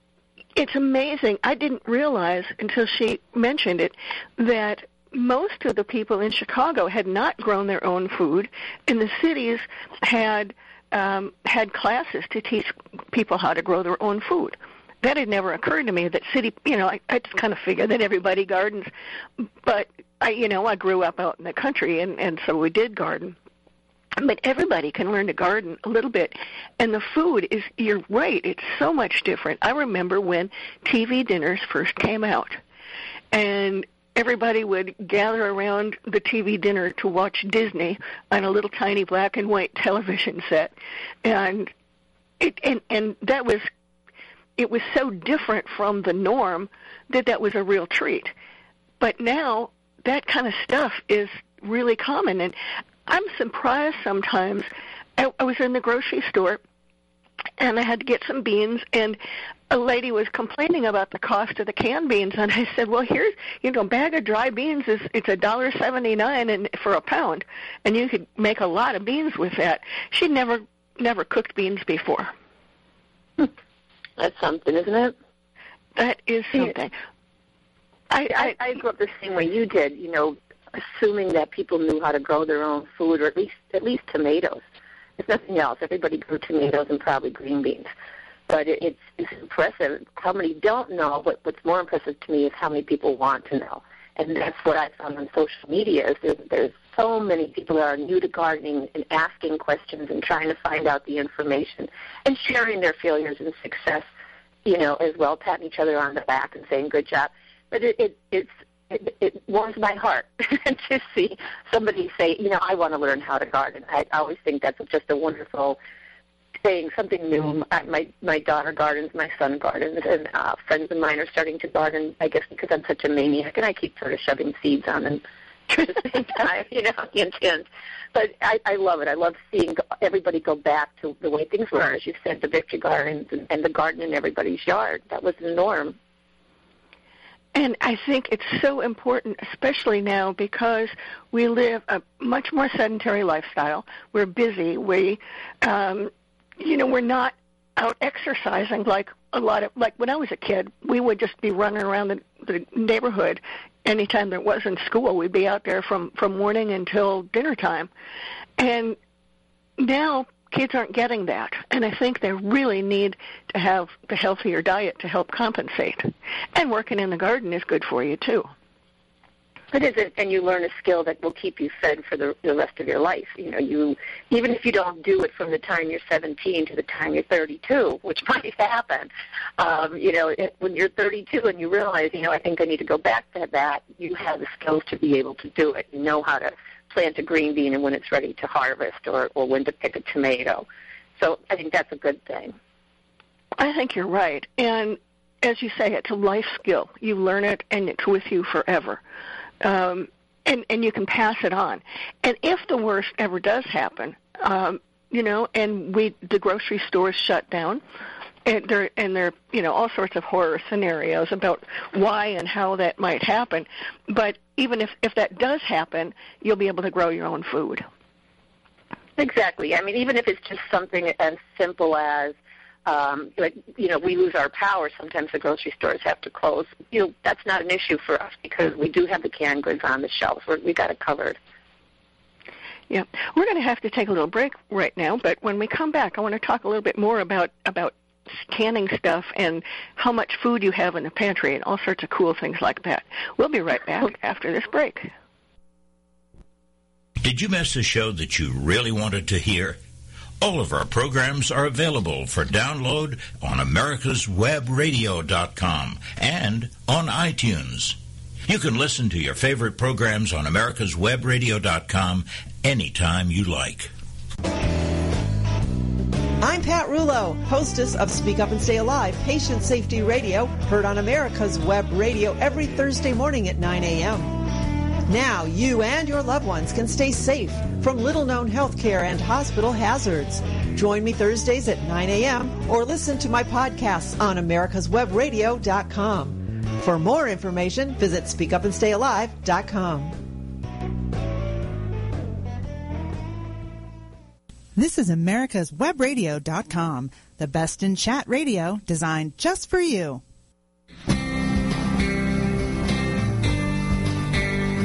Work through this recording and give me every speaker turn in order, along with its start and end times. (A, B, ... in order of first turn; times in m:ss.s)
0:00.6-0:23.4 A
0:24.2-0:32.6 A
0:33.3-0:40.7 A
0:41.2-0:41.7 A
0:42.4-0:43.7 A
0:44.6-0:48.3 A
0:49.0-0:52.6 A
0:53.1-0:56.6 A
0:57.6-0:59.2 A
0:59.7-1:12.3 A
1:14.2-1:15.2 B
1:16.0-1:16.9 A
1:18.1-1:18.6 A
1:18.3-1:24.6 B
1:25.2-1:27.9 B
1:28.5-1:44.0 B
1:44.6-1:55.8 B
1:56.6-2:16.0 B
2:17.5-2:37.9 A
2:38.6-2:39.0 A
2:39.8-2:48.5 A
2:49.7-3:10.7 B
3:11.2-3:12.5 B
3:13.6-3:19.0 A
3:19.6-3:27.8 A
3:28.4-3:37.8 A
3:39.2-3:42.4 B
3:42.9-3:51.4 B
3:52.9-4:05.1 A
4:07.2-4:09.8 C
4:10.4-4:23.9 C
4:26.4-4:50.2 D
4:54.8-5:00.2 E